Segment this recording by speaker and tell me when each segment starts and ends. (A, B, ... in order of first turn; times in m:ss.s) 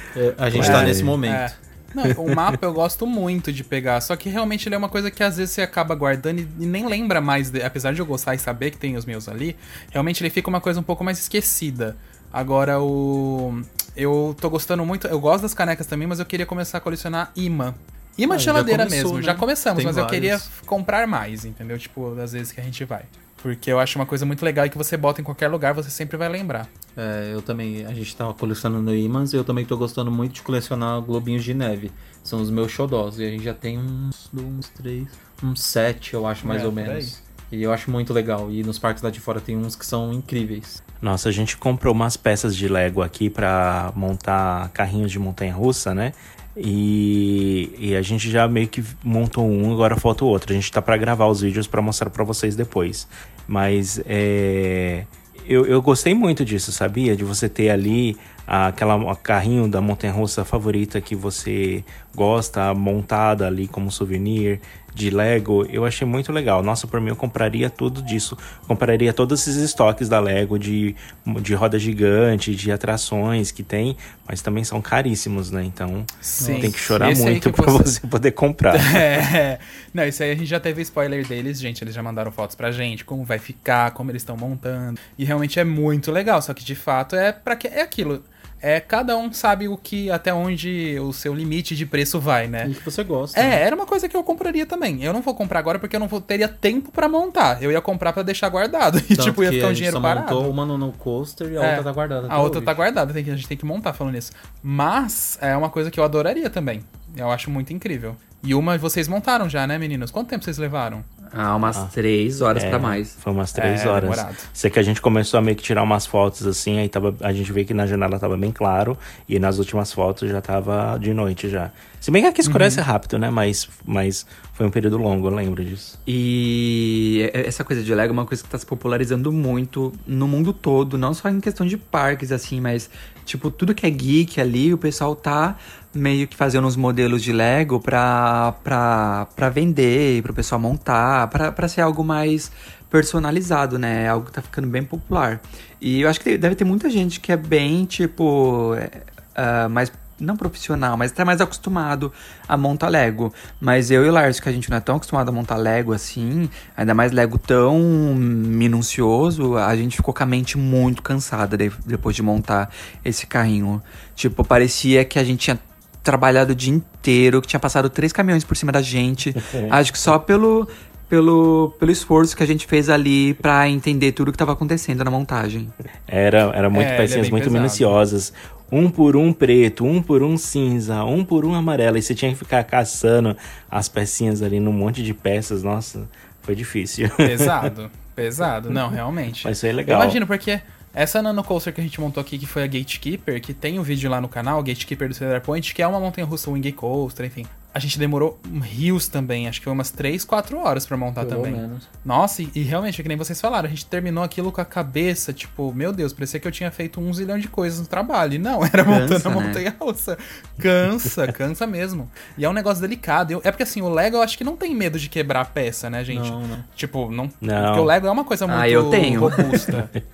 0:00.2-0:01.6 A
0:00.5-0:01.2 B
0:00.6-0:26.7 C
0:18.3-0:20.5 A
0:27.0-0:40.8 A
0:36.4-0:37.2 C
0:41.0-1:19.0 B
1:16.2-1:18.0 C
1:16.4-1:16.8 A
1:18.7-1:32.7 C
1:32.6-1:33.6 A
1:33.3-1:40.6 C
1:39.1-1:42.8 A
1:41.6-1:51.1 C
1:51.3-1:53.1 D
1:52.5-2:06.0 B
1:53.5-1:54.4 C
2:02.4-2:02.8 C
2:06.1-2:55.7 D
2:49.4-2:49.8 B
2:56.1-3:07.7 B
2:56.7-2:57.9 C
3:07.2-3:39.9 C
3:09.4-3:10.2 B
3:21.2-3:21.9 A
3:28.9-3:29.6 D
3:36.1-3:36.7 A
3:37.4-3:37.9 B
3:38.5-3:39.5 D